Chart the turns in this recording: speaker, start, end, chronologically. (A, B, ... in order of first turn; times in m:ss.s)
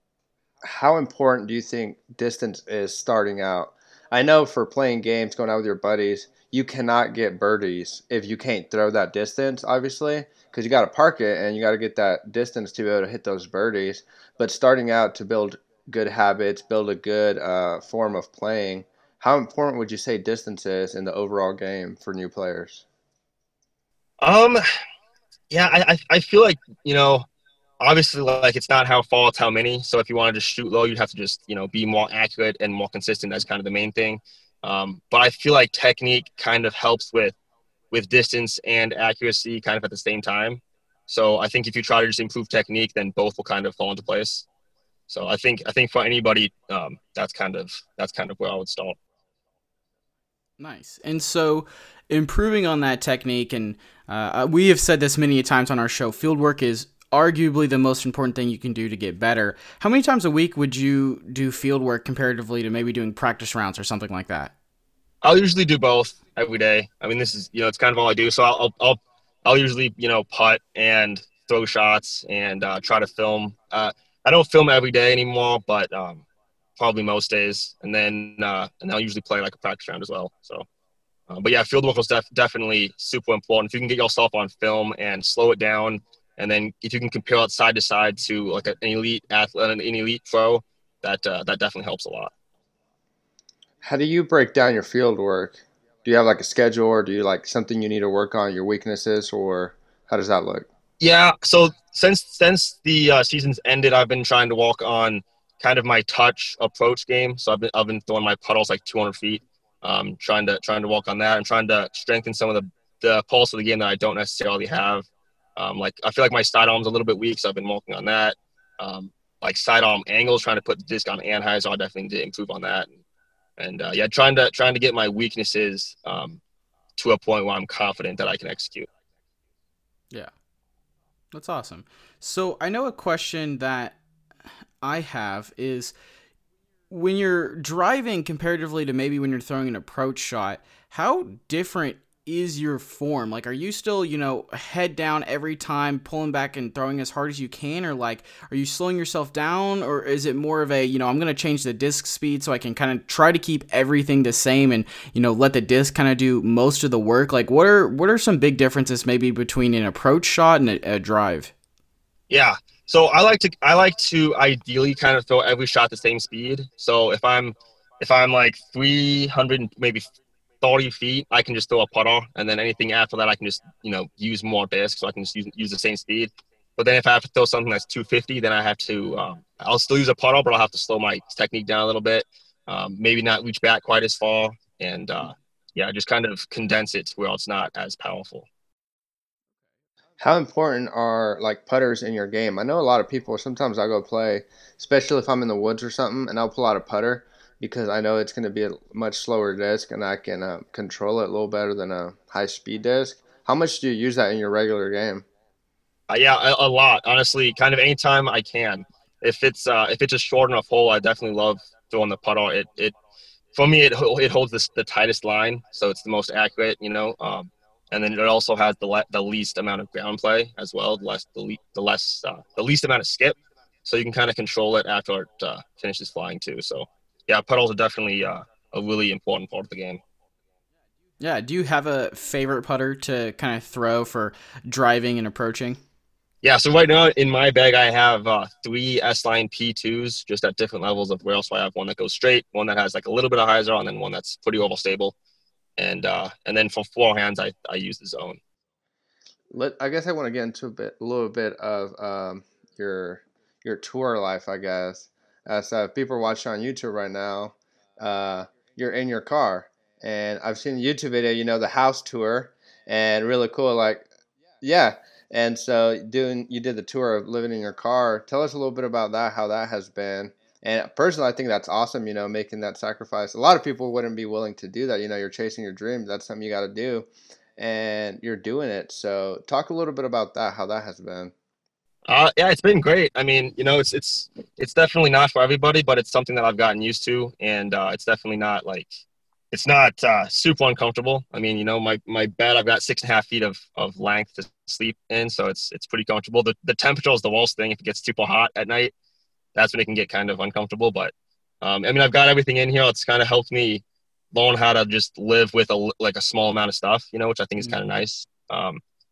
0:00.6-0:22.8 A
0:24.2-0:24.6 B
0:25.5-0:27.2 B
0:27.8-0:37.3 B
0:37.9-0:44.4 B
0:45.1-0:49.0 B
0:50.6-1:04.5 C
1:05.2-1:16.2 B
1:16.8-1:20.6 B
1:21.3-1:32.3 B
1:33.8-1:40.7 A
1:41.0-2:02.9 B
2:03.6-2:06.4 B
2:07.0-2:08.9 B
2:11.3-2:14.0 C
2:14.8-2:15.9 C
2:16.9-2:41.5 C
2:42.3-2:50.1 B
2:50.6-3:08.5 B
3:10.2-3:25.2 A
3:26.1-3:32.9 B
3:33.5-3:50.0 B
3:51.2-3:55.8 C
3:56.4-4:05.1 B
4:05.8-4:08.4 B
4:09.5-4:24.1 A
4:24.6-4:37.1 A
4:37.6-4:41.3 A
4:42.1-4:48.9 B
4:49.5-4:58.9 B
4:59.5-5:08.8 B